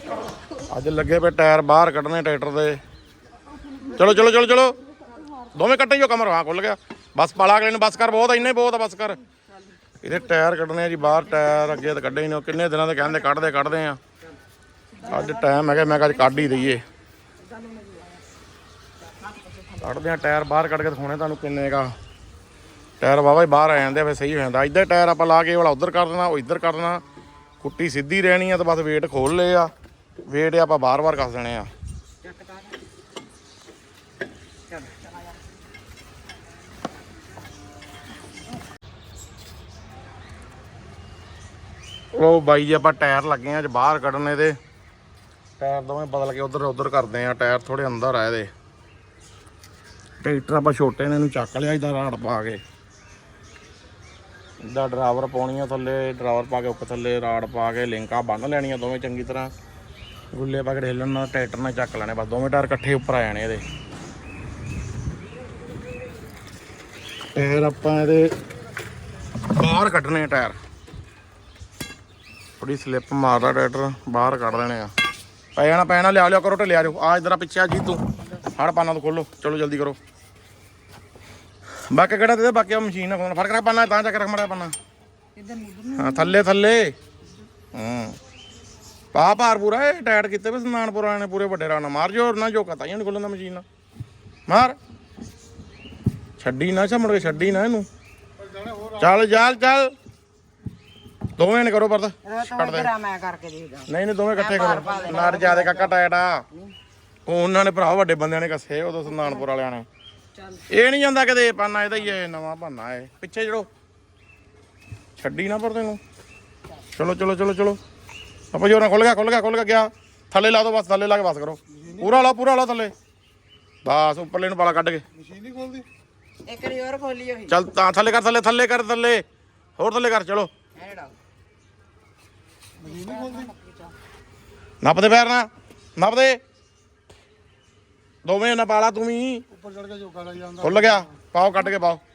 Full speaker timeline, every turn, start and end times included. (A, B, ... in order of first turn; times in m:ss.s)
0:00.7-0:02.8 A
0:03.9-0:04.8 A
0:05.5-0:09.2 A
0:10.0-0:14.0 A
0:15.0-0:16.8 A
0:17.5-0:18.1 B
0:19.3-0:19.8 B
0:19.8-0:21.9 A
0:23.0-0:27.0 A
0:27.6-0:29.7 A
0:30.2-0:31.7 A
0:32.3-0:32.6 B
0:42.1-0:44.6 A
0:45.6-0:48.5 A
0:50.2-0:52.6 A
0:54.6-0:59.5 A
1:00.3-1:03.6 A
1:07.3-1:08.3 A
1:09.4-1:10.6 A
1:12.6-1:14.9 A
1:15.5-1:20.0 A
1:21.9-1:24.7 A
1:25.4-1:26.3 B
1:25.9-1:26.9 A
1:27.7-1:28.2 A
1:29.1-1:33.6 A
1:34.5-1:34.8 A
1:36.4-1:37.9 A
1:38.9-1:39.9 A
1:41.4-1:42.9 A
1:42.2-1:45.9 C
1:43.9-1:46.4 A
1:47.2-1:49.9 A
1:50.7-1:53.7 A
1:55.2-1:56.0 A
1:56.9-1:57.8 A
1:58.5-2:02.9 A
2:03.8-2:05.0 A
2:06.4-2:07.6 C
2:07.5-2:09.2 A
2:09.8-2:10.5 A
2:10.8-2:11.1 C
2:12.8-2:13.5 B
2:12.8-2:13.7 C
2:14.8-2:16.4 A
2:18.2-2:19.4 A
2:20.0-2:20.3 B
2:20.5-2:22.0 A